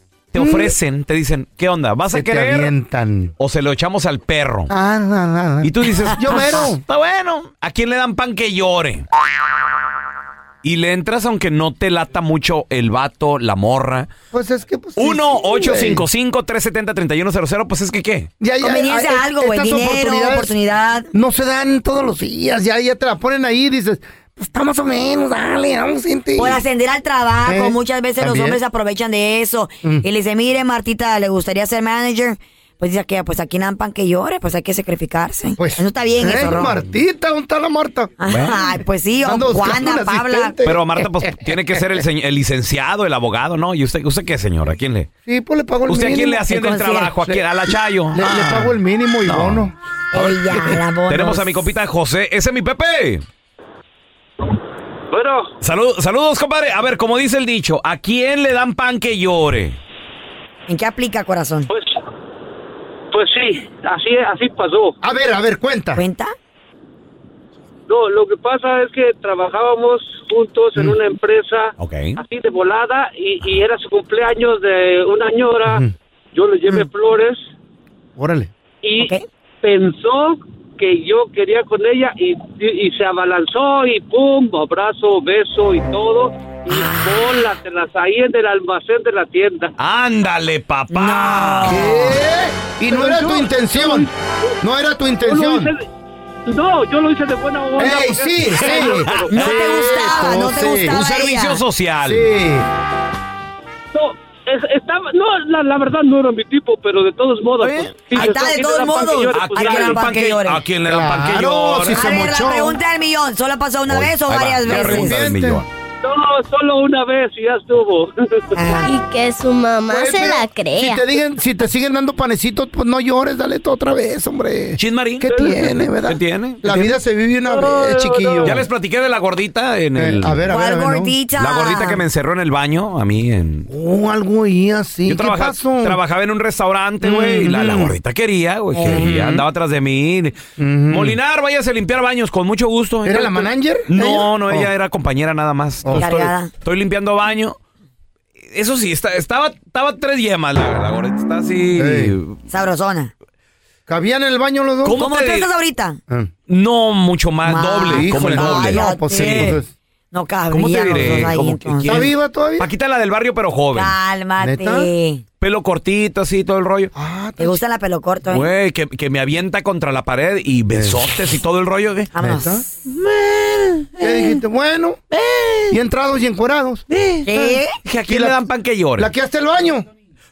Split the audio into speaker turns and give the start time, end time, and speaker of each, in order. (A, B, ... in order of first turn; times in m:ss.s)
0:00.3-0:02.7 A
0:00.3-0:00.8 B
0:02.1-0:03.3 B
0:03.4-0:04.7 A
0:04.7-0:06.8 B
0:05.6-0:09.0 A
0:10.6-0:14.1 A
0:14.3-0:16.0 B
0:15.0-0:18.3 A
0:18.4-0:20.5 B
0:18.6-0:21.1 C
0:21.1-0:26.6 B
0:26.4-0:36.8 C
0:27.4-0:28.6 B
0:35.6-0:38.1 B
0:38.2-0:40.6 C
0:38.3-0:38.6 A
0:39.2-0:41.6 B
0:40.6-0:45.1 A
0:45.2-0:46.4 B
0:45.9-0:48.7 A
0:46.5-0:47.1 C
0:47.2-0:49.7 B
0:49.2-0:53.2 A
0:50.1-0:51.5 C
0:55.1-0:55.5 D
0:55.6-0:59.8 A
1:00.7-1:01.7 C
1:01.7-1:02.0 D
1:03.1-1:05.0 D
1:05.0-1:06.0 B
1:06.0-1:06.3 C
1:07.9-1:17.4 D
1:11.8-1:12.2 A
1:15.6-1:15.9 B
1:18.2-1:18.5 B
1:18.8-1:29.7 D
1:19.0-1:19.2 C
1:26.7-1:27.2 C
1:29.8-1:31.8 A
1:30.9-1:32.1 C
1:31.6-1:34.1 B
1:32.9-1:34.5 D
1:34.6-1:35.7 B
1:35.2-1:35.8 D
1:36.4-1:39.4 D
1:37.8-1:41.0 B
1:38.8-1:39.3 A
1:39.3-1:41.6 C
1:40.9-1:42.2 A
1:42.0-1:42.7 B
1:43.9-1:50.1 D
1:47.6-1:48.5 A
1:48.1-1:50.6 C
1:49.3-1:52.0 A
1:50.9-1:52.8 B
1:51.9-1:55.2 C
1:53.9-1:55.7 A
1:54.6-1:55.6 B
1:56.0-1:58.7 D
1:58.5-1:58.9 C
1:58.8-2:01.1 E
1:59.9-2:08.6 B
2:04.8-2:06.9 A
2:05.3-2:05.6 D
2:07.5-2:08.6 D
2:08.4-2:10.5 A
2:09.9-2:11.2 B
2:10.5-2:12.0 C
2:11.4-2:13.7 A
2:13.7-2:16.0 B
2:15.0-2:27.6 A
2:17.0-2:18.0 B
2:18.7-2:19.1 C
2:18.8-2:19.4 B
2:20.6-2:21.2 B
2:23.0-2:24.7 B
2:25.8-2:26.1 B
2:25.9-2:26.5 C
2:28.4-2:32.4 A
2:31.8-2:32.2 B
2:32.5-2:33.1 C
2:33.9-2:35.0 B
2:34.8-2:35.5 A
2:35.0-2:36.0 C
2:36.5-2:39.6 A
2:37.4-2:39.6 C
2:37.9-2:39.7 B
2:40.1-2:41.9 C
2:40.5-2:43.9 A
2:41.8-2:42.7 B
2:43.7-2:45.2 C
2:44.4-2:44.9 B
2:45.4-2:46.9 A
2:46.9-2:47.6 B
2:47.4-2:48.5 C
2:48.3-2:52.1 A
2:50.7-2:51.1 B
2:52.1-2:52.6 C
2:52.2-2:52.6 B
2:52.9-2:54.0 A
2:54.0-2:55.0 B
2:55.1-2:55.8 A
2:55.7-2:56.8 B
2:56.9-2:59.1 A
2:57.2-2:57.7 C
2:58.1-2:58.4 B
2:59.0-2:59.8 B